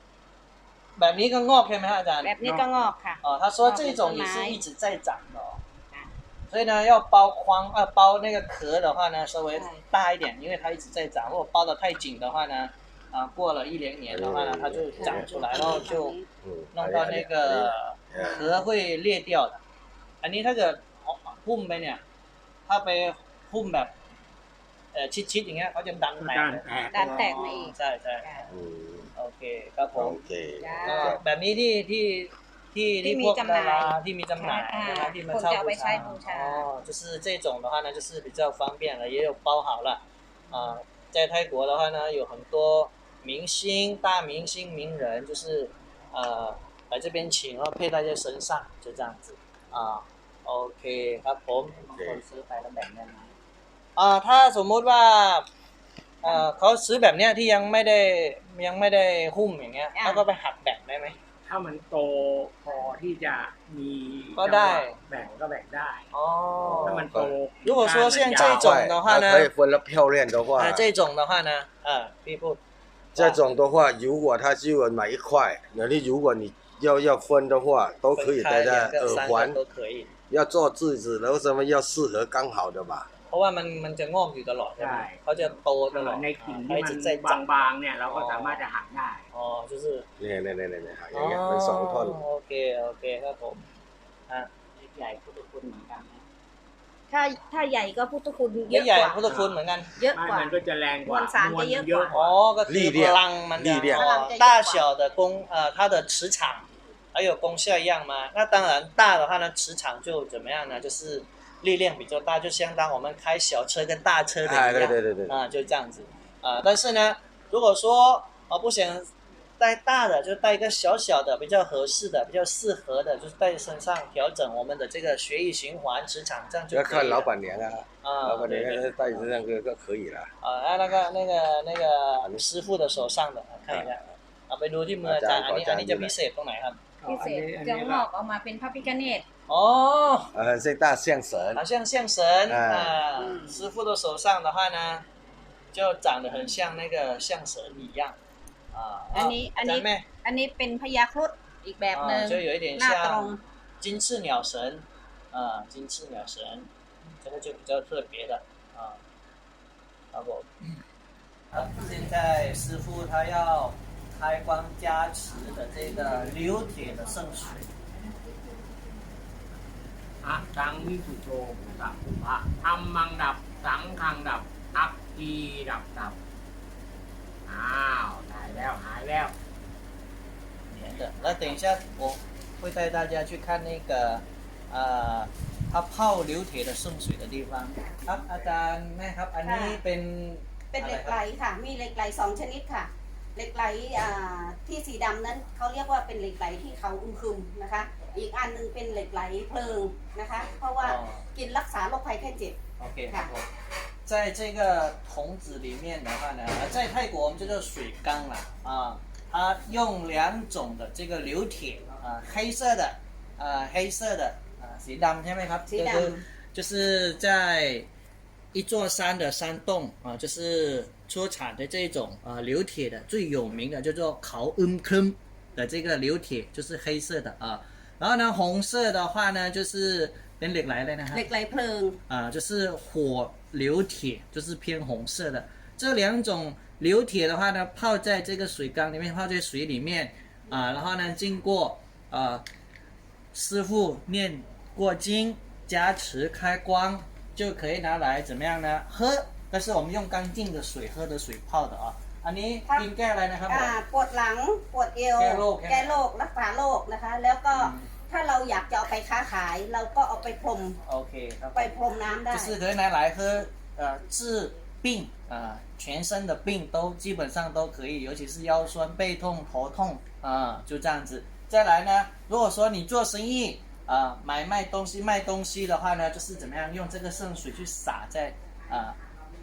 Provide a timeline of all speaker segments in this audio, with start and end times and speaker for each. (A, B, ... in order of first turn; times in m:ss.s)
0:01.0-0:02.7 A
0:02.2-0:04.6 B
0:03.2-0:05.6 A
0:06.5-0:16.2 A
0:14.1-0:15.9 C
0:15.0-0:16.3 B
0:16.4-0:18.5 C
0:16.7-0:19.6 A
0:18.2-0:18.6 B
0:20.2-0:22.0 A
0:22.7-0:23.9 A
0:24.9-0:28.3 A
0:26.2-0:27.4 D
0:26.9-0:27.7 B
0:28.5-0:29.1 C
0:29.2-0:30.2 A
0:30.0-0:31.2 C
0:30.6-0:31.2 B
0:30.8-0:51.9 A
0:33.0-0:36.7 B
0:51.9-0:53.3 D
0:52.0-0:52.2 C
0:54.0-0:55.5 A
0:56.2-1:01.2 A
1:00.0-1:00.2 B
1:01.5-1:06.1 D
1:04.4-1:05.0 A
1:06.1-1:07.1 A
1:06.6-1:07.3 C
1:06.8-1:08.8 D
1:07.6-1:09.5 A
1:08.4-1:10.9 C
1:10.6-1:12.6 A
1:13.2-1:13.5 A
1:13.2-1:19.6 C
1:18.2-1:20.1 A
1:20.3-1:23.1 C
1:23.3-1:28.6 A
1:24.8-1:29.3 D
1:29.3-1:30.1 A
1:30.2-1:32.2 C
1:31.1-1:33.6 A
1:34.8-1:36.2 D
1:37.1-1:39.4 B
1:38.7-1:40.0 A
1:39.3-1:39.6 D
1:40.0-1:42.4 B
1:40.1-1:42.2 D
1:42.1-1:59.1 A
1:42.7-1:44.1 C
1:43.9-1:44.8 B
1:54.4-1:55.4 C
1:59.6-2:07.3 A
2:06.7-2:10.3 C
2:08.0-2:09.2 A
2:10.4-2:16.8 A
2:15.0-2:16.1 C
2:17.0-2:18.1 D
2:17.1-2:19.2 B
2:19.5-2:20.3 A
2:20.3-2:21.6 C
2:21.6-2:25.0 A
2:22.5-2:23.0 C
2:23.2-2:23.6 B
2:25.7-2:28.2 A
2:28.7-2:30.1 A
2:29.1-2:33.4 B
2:31.9-2:36.7 A
2:37.2-2:39.0 A
2:40.1-2:40.5 A
2:41.5-2:47.7 A
2:50.2-2:56.2 D
2:57.5-2:59.3 D
3:00.7-3:11.2 A
3:09.4-3:09.8 B
3:10.7-3:22.6 B
3:20.8-3:21.2 A
3:22.8-3:23.5 A
3:24.1-3:37.9 A
3:35.7-3:36.2 B
3:38.5-3:51.3 A
3:51.1-3:52.0 B
3:52.1-4:02.4 A
4:03.3-4:13.8 A
4:13.5-4:20.8 B
4:15.2-4:16.0 A
4:17.5-4:17.9 A
4:20.9-4:21.8 A
4:21.6-4:22.6 B
4:22.3-4:39.0 A